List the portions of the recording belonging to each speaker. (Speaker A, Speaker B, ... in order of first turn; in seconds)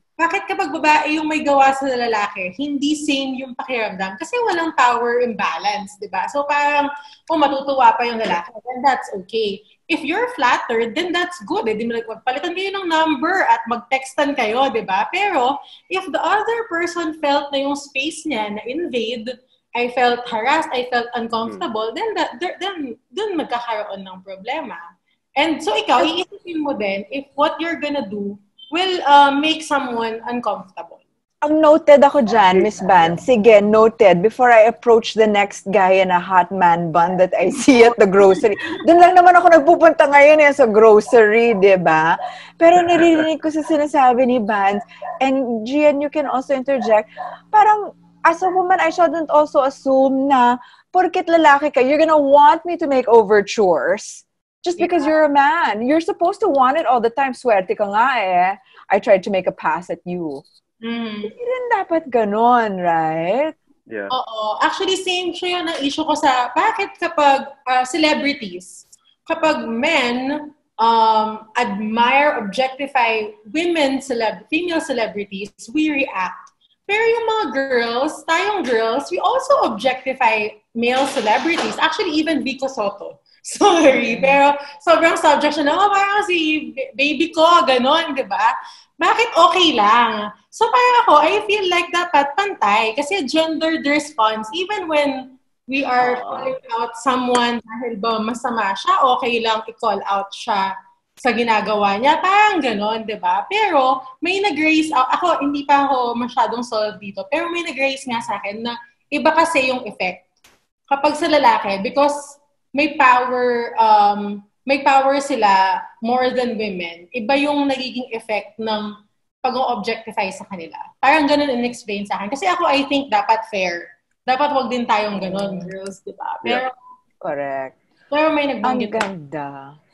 Speaker A: 0.2-24.8, 25.4-31.0, 54.8-55.1, 60.8-61.3, 64.1-110.2, 110.9-126.7, 128.1-129.1
Speaker B: 31.4-60.4, 61.2-63.5, 125.2-125.7, 127.2-127.8, 128.6-129.8